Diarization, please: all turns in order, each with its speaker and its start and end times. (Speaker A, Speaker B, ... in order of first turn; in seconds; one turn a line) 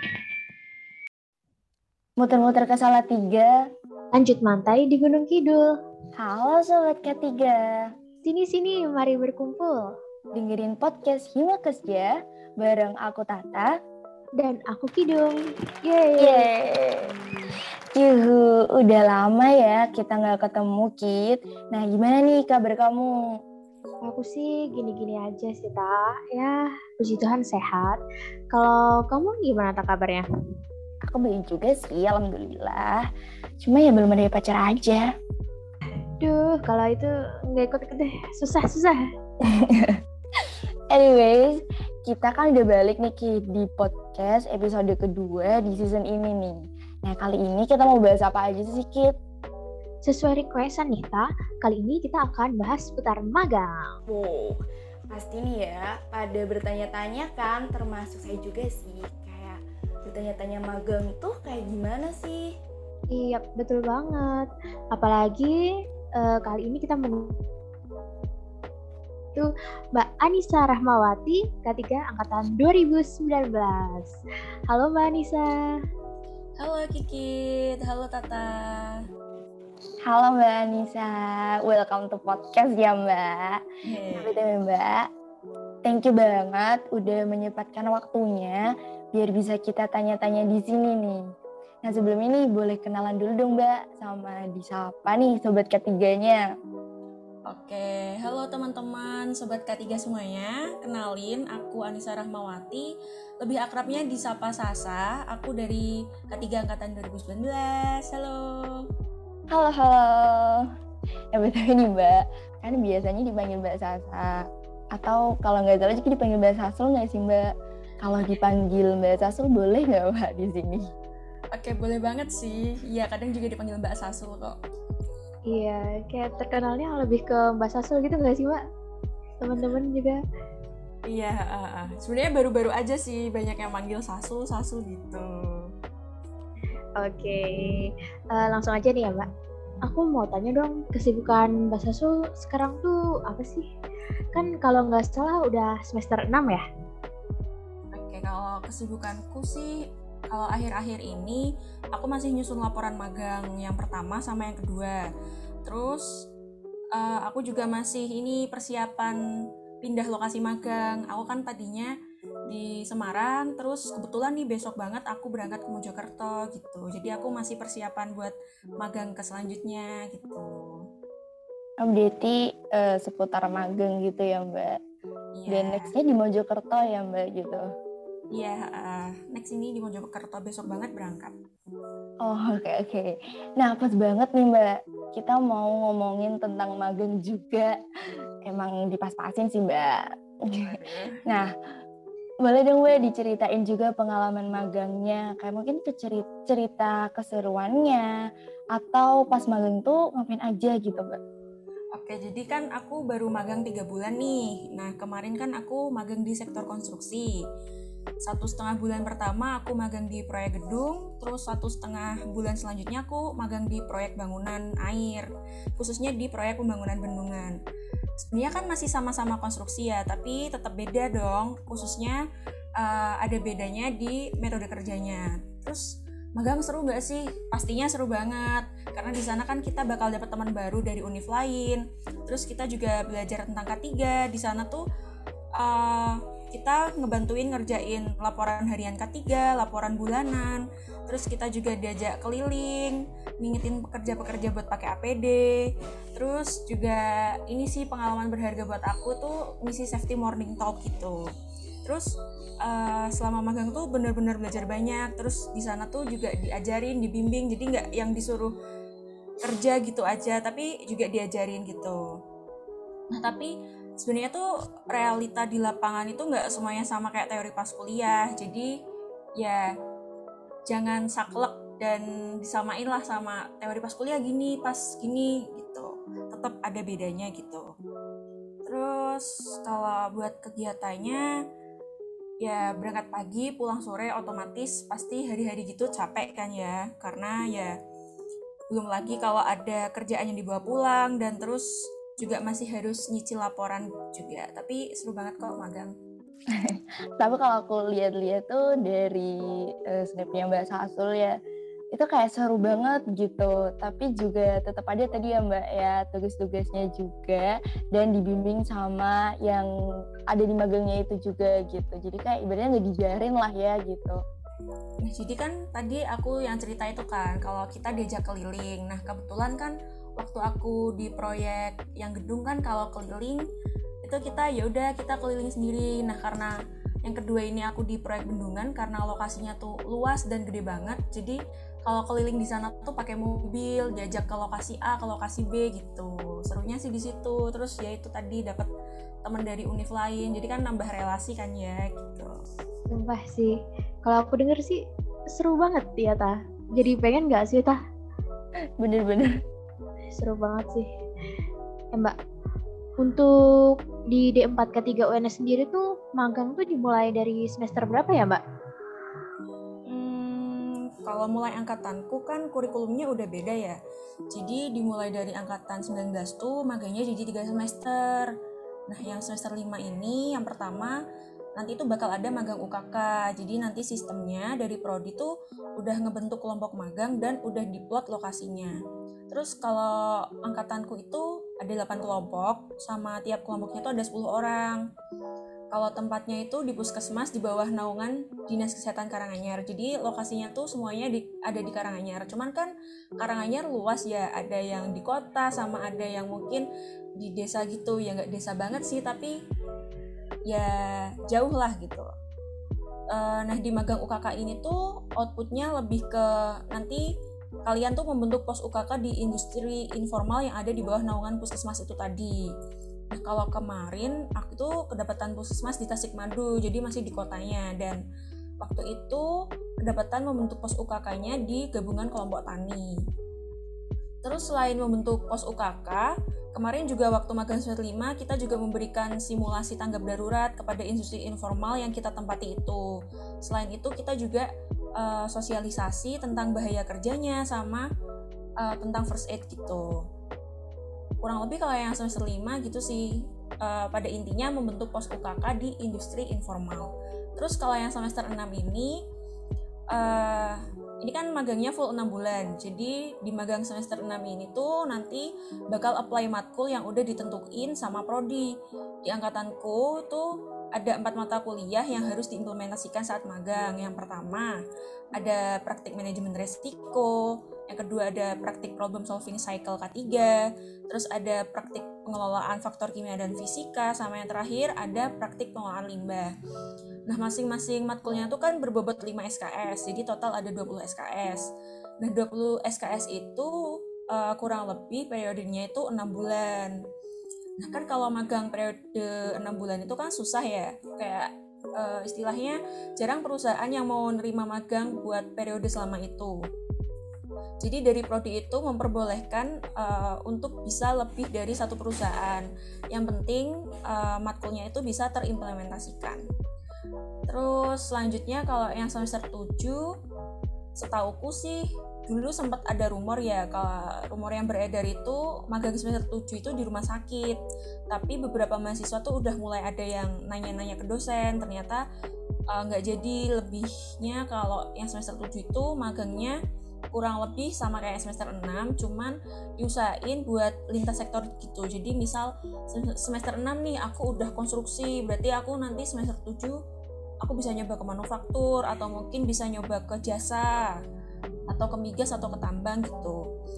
Speaker A: 2.2-3.5
Speaker B: 4.1-5.7
Speaker A: 6.2-7.6
Speaker B: 8.2-9.8
Speaker A: 10.3-13.7
Speaker B: 14.4-16.5
Speaker A: 16.2-17.1
Speaker A: 17.9-23.1
Speaker B: 24.0-28.0
Speaker B: 28.5-30.2
Speaker A: 31.1-33.0
Speaker A: 33.6-35.1
Speaker B: 36.2-39.0
Speaker A: 39.4-49.1
Speaker B: 50.0-53.7
Speaker A: 54.1-62.5
Speaker B: 63.1-65.6
Speaker B: 66.2-67.4
Speaker B: 69.3-74.1
Speaker B: 74.7-75.5
Speaker C: 76.6-79.0
Speaker A: 80.1-83.6
Speaker C: 83.8-84.4
Speaker A: 84.2-85.0
Speaker A: 85.8-88.6
Speaker A: 89.1-91.2
Speaker A: 91.8-96.4
Speaker C: 97.5-108.9
Speaker A: 109.5-110.7
Speaker A: 111.3-117.5
Speaker A: 118.0-120.9
Speaker C: 121.5-124.6
Speaker B: 125.5-128.6
Speaker B: 129.4-130.2
Speaker C: 131.1-135.7
Speaker B: 136.9-139.3
Speaker B: 139.8-143.7
Speaker B: 144.3-146.6
Speaker C: 147.9-155.1
Speaker C: 155.6-156.3
Speaker C: 156.9-159.2
Speaker C: 159.8-161.9
Speaker C: 162.5-170.8
Speaker A: 171.8-174.8
Speaker C: 175.3-175.9
Speaker A: 175.5-177.6
Speaker C: 178.3-181.3
Speaker A: 182.2-187.8
Speaker A: 188.4-191.5
Speaker C: 190.6-191.2
Speaker A: 192.4-198.1
Speaker A: 198.7-201.2
Speaker C: 201.9-207.4
Speaker C: 208.2-217.6
Speaker C: 218.2-222.2
Speaker C: 222.8-234.8
Speaker C: 235.5-251.2
Speaker C: 251.8-258.6
Speaker C: 259.4-262.1
Speaker C: 263.1-268.7
Speaker C: 269.4-269.7
Speaker C: 270.7-277.7
Speaker C: 278.6-281.2
Speaker C: 282.4-287.8
Speaker C: 288.7-295.9
Speaker A: 296.5-301.4
Speaker A: 301.9-309.7
Speaker A: 310.3-314.2
Speaker C: 315.0-323.4
Speaker C: 324.0-338.7
Speaker C: 339.2-342.3
Speaker B: 342.9-344.8
Speaker B: 345.3-347.8
Speaker A: 348.8-349.3
Speaker B: 350.1-350.9
Speaker B: 353.0-358.4
Speaker C: 359.9-363.8
Speaker C: 364.3-368.3
Speaker C: 368.9-371.0
Speaker C: 371.6-378.8
Speaker C: 379.3-384.8
Speaker C: 385.7-396.7
Speaker C: 397.2-399.4
Speaker C: 400.5-402.1
Speaker C: 403.1-407.1
Speaker C: 407.6-412.5
Speaker C: 413.1-418.0
Speaker C: 418.6-419.3
Speaker C: 419.8-423.0
Speaker C: 424.2-437.9
Speaker C: 438.6-440.1
Speaker C: 441.2-449.0
Speaker C: 449.9-458.5
Speaker C: 459.0-464.6
Speaker C: 465.1-476.3
Speaker C: 477.1-481.5
Speaker C: 482.0-486.8
Speaker C: 487.6-496.4
Speaker C: 497.6-506.2
Speaker C: 507.3-509.9
Speaker C: 510.7-521.8
Speaker C: 522.5-526.4
Speaker C: 526.9-536.6
Speaker C: 537.2-540.7
Speaker C: 541.5-543.2